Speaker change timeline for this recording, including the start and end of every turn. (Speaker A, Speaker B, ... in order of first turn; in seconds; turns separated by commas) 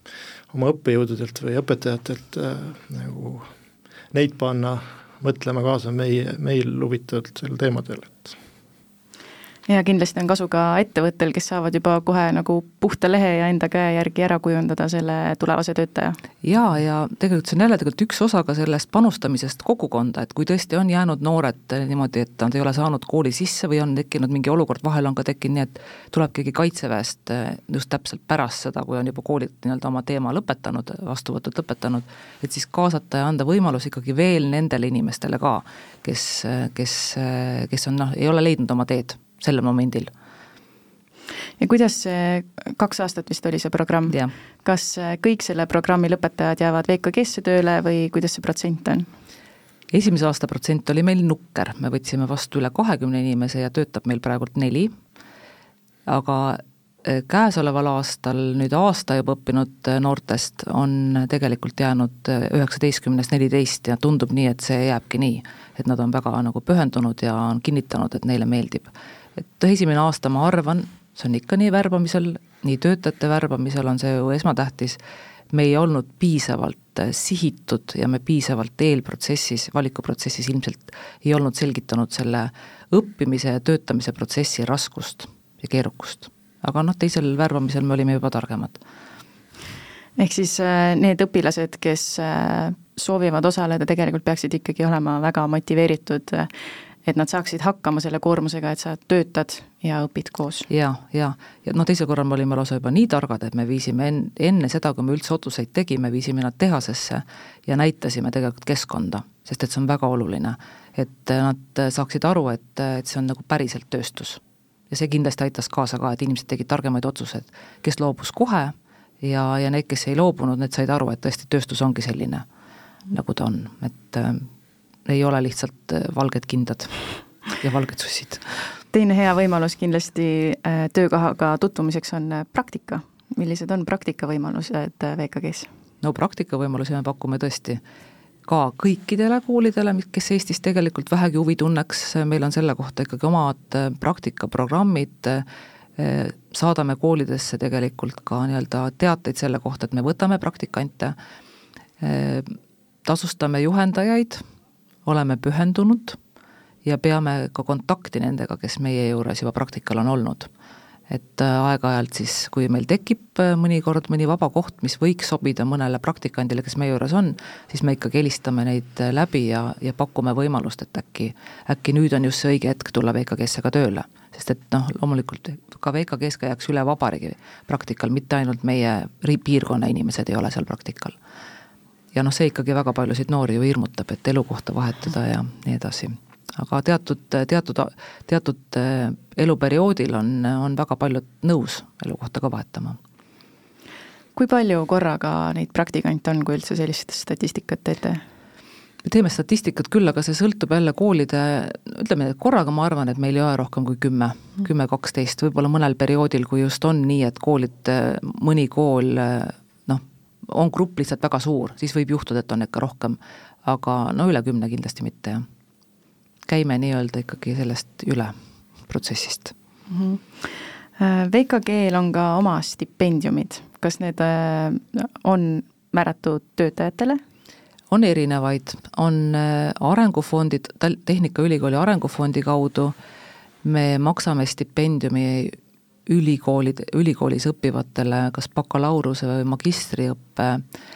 Speaker A: 0.5-3.5, Speaker A: 4.1-8.4, Speaker B: 9.7-16.2, Speaker C: 16.4-40.1, Speaker B: 41.6-49.1, Speaker C: 49.9-54.9, Speaker C: 56.1-75.0, Speaker C: 75.5-88.8, Speaker B: 90.2-96.5, Speaker B: 97.0-100.7, Speaker C: 100.7-122.4, Speaker C: 123.1-124.5, Speaker C: 125.1-127.0, Speaker C: 127.5-128.5, Speaker B: 128.9-135.7, Speaker C: 136.0-137.8, Speaker C: 138.5-145.4, Speaker C: 146.0-151.2, Speaker C: 152.0-154.4, Speaker C: 155.1-156.2, Speaker C: 156.8-160.5, Speaker C: 161.1-181.2, Speaker C: 182.1-193.0, Speaker B: 194.4-198.2, Speaker C: 199.0-215.4, Speaker C: 216.5-218.3, Speaker C: 218.9-219.5, Speaker B: 219.9-227.2, Speaker C: 227.9-232.9, Speaker C: 233.6-235.6, Speaker C: 236.1-240.6